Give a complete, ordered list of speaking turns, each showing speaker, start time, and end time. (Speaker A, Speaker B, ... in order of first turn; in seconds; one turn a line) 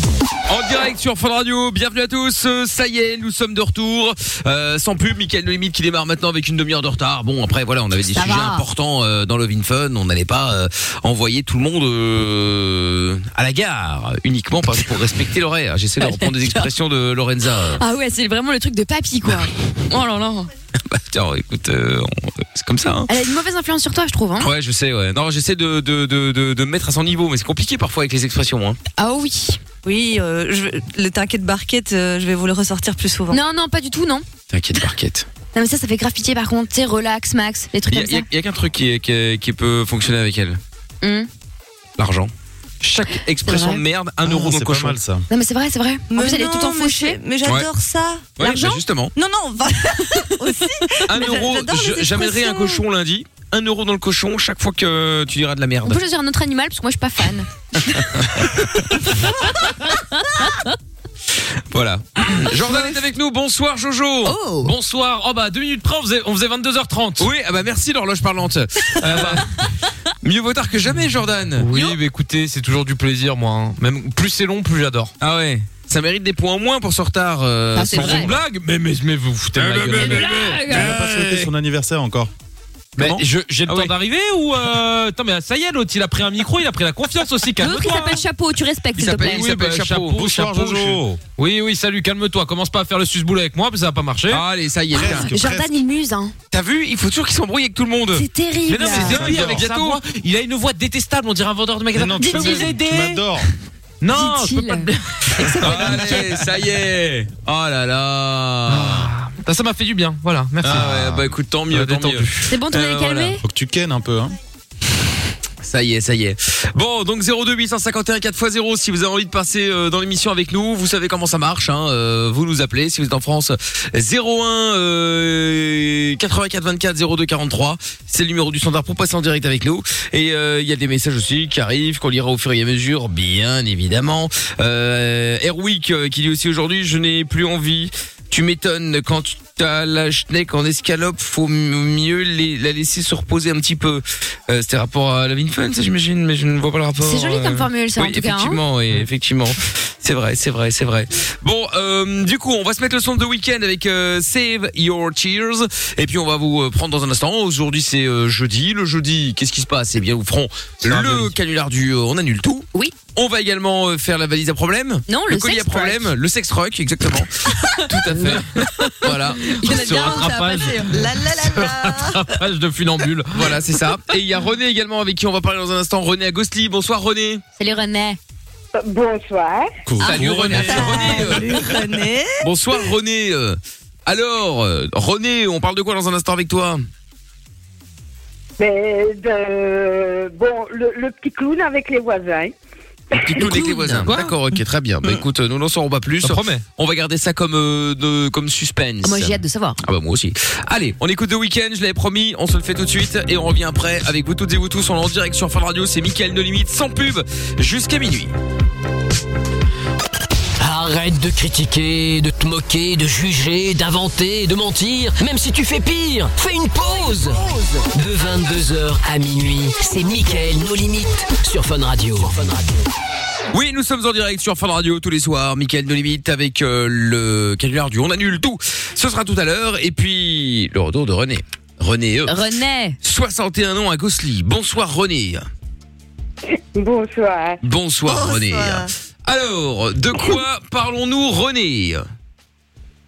Speaker A: 0.5-17.8
Speaker B: 8.1-8.6
Speaker B: 16.0-16.7
Speaker B: 17.7-20.5
Speaker A: 20.8-23.1
Speaker B: 23.1-24.5
Speaker A: 24.4-28.8
Speaker B: 29.0-29.6
Speaker C: 29.8-33.4
Speaker B: 33.3-34.2
Speaker A: 34.5-35.3
Speaker B: 35.5-38.3
Speaker A: 37.9-40.6
Speaker B: 41.0-41.3
Speaker A: 42.0-45.0
Speaker B: 43.4-43.8
Speaker D: 44.3-45.2
Speaker B: 45.3-47.2
Speaker C: 46.1-48.3
Speaker A: 48.4-49.1
Speaker B: 48.4-48.8
Speaker C: 49.1-52.8
Speaker A: 51.0-56.0
Speaker B: 55.9-58.1
Speaker A: 58.1-58.5
Speaker A: 61.7-64.4
Speaker B: 64.2-64.7
Speaker E: 64.6-67.3
Speaker A: 67.2-69.5
Speaker E: 69.0-69.5
Speaker A: 70.2-71.7
Speaker E: 71.6-75.1
Speaker A: 75.2-78.4
Speaker B: 77.7-78.3
Speaker E: 77.9-81.5
Speaker A: 79.5-81.1
Speaker D: 80.0-82.3
Speaker A: 83.0-83.9
Speaker E: 83.0-88.2
Speaker B: 87.6-89.5
Speaker A: 89.0-91.0
Speaker E: 89.4-90.0
Speaker D: 90.0-91.2
Speaker E: 91.3-94.4
Speaker A: 94.3-95.3
Speaker D: 94.9-95.7
Speaker B: 95.0-96.3
Speaker A: 96.5-98.2
Speaker B: 98.1-99.3
Speaker E: 98.7-103.2
Speaker D: 98.8-99.7
Speaker A: 99.3-100.0
Speaker D: 101.9-103.5
Speaker B: 102.2-102.7
Speaker E: 104.0-106.4
Speaker B: 104.1-104.9
Speaker A: 105.4-109.1
Speaker D: 105.5-106.2
Speaker E: 108.7-112.4
Speaker A: 110.6-113.4
Speaker D: 110.7-111.0
Speaker B: 112.5-113.4
Speaker D: 113.4-114.3
Speaker A: 115.6-170.2
Speaker B: 147.0-148.6
Speaker E: 160.8-161.3
Speaker B: 165.1-166.1
Speaker E: 168.1-168.5
Speaker B: 169.4-170.9
Speaker E: 169.7-173.6
Speaker C: 170.6-172.2
Speaker A: 173.3-177.4
Speaker B: 177.6-178.2
Speaker F: 178.7-179.7
Speaker D: 179.9-181.8
Speaker B: 180.0-181.0
Speaker A: 180.0-181.6
Speaker C: 180.6-182.4
Speaker A: 182.4-186.8
Speaker F: 188.6-192.5
Speaker A: 193.1-208.3
Speaker B: 193.3-194.1
Speaker E: 194.1-194.5
Speaker E: 196.2-196.6
Speaker B: 199.0-199.8
Speaker G: 210.6-222.8
Speaker A: 223.5-232.3
Speaker B: 232.2-233.0
Speaker A: 233.0-235.4
Speaker F: 236.7-237.6
Speaker A: 237.6-242.0
Speaker C: 238.1-238.9